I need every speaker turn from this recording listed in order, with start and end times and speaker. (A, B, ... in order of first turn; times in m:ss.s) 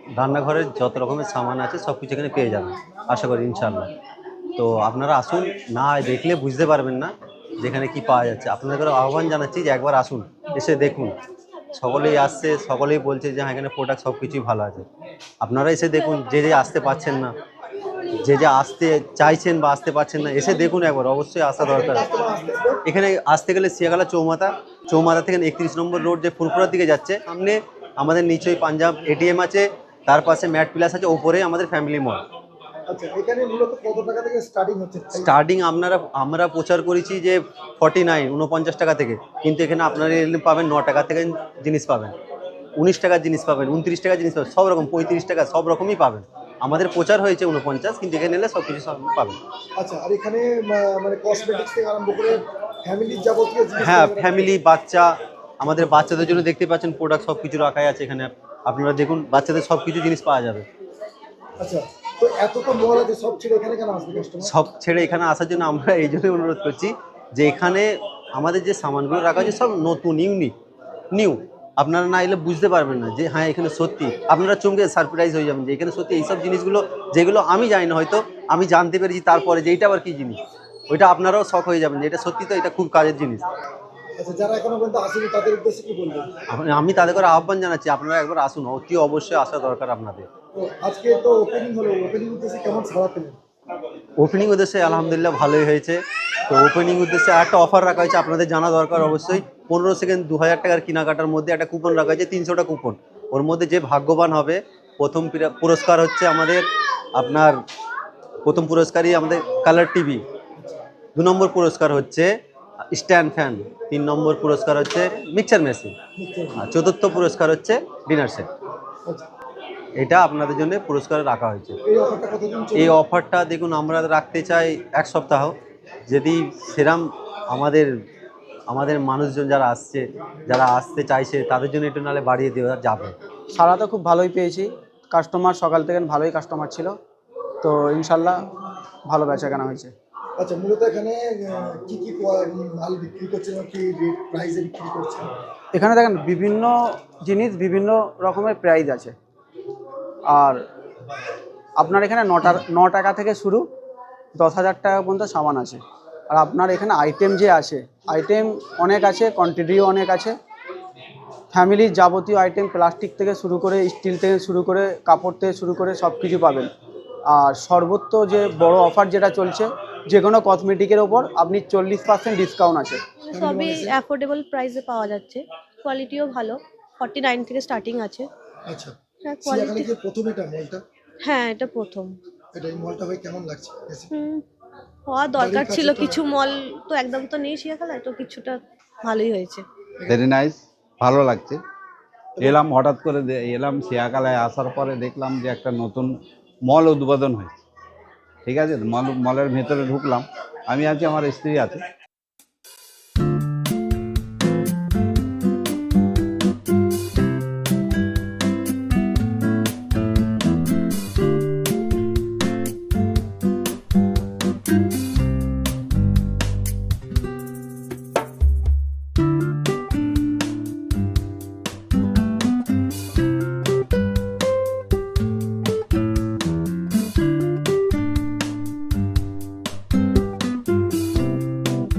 0:00.1-0:03.9 A
0:04.6-0:11.1 A
0:11.7-0:14.8 A
0:15.4-0:17.3 A
0:18.2-0:22.1 A
0:21.6-0:22.8 B
0:22.9-0:32.2 A
0:32.9-0:35.3 B
0:35.1-0:42.1 A
0:42.8-0:49.4 A
0:49.8-0:54.5 B
0:53.8-1:00.6 A
1:01.6-1:04.5 B
1:04.4-1:10.5 A
1:11.1-1:23.4 A
1:24.2-1:26.4 B
1:26.5-1:30.3 A
1:30.5-1:33.4 B
1:34.2-1:47.6 A
1:48.4-1:50.2 A
1:51.2-1:52.3 A
1:52.9-1:56.0 A
1:56.2-1:56.6 B
1:56.6-1:58.5 A
2:00.0-2:01.8 A
2:01.8-2:03.0 B
2:02.7-2:05.5 A
2:06.1-2:07.9 A
2:08.7-2:13.2 A
2:13.5-2:16.9 C
2:17.6-2:18.4 C
2:19.1-2:19.9 C
2:20.4-2:25.3 B
2:25.7-2:29.1 C
2:30.3-2:30.6 C
2:31.8-2:33.6 C
2:34.4-2:35.8 C
2:36.3-2:40.3 C
2:41.5-2:46.7 C
2:47.3-2:53.0 C
2:53.3-2:54.0 B
2:53.3-2:58.3 D
2:58.7-3:00.8 B
2:59.2-2:59.9 D
3:01.2-3:02.2 D
3:02.5-3:04.1 B
3:04.1-3:04.4 D
3:05.1-3:09.6 D
3:05.4-3:06.2 B
3:10.1-3:11.6 E
3:12.4-3:17.6 E
3:18.4-3:21.8 E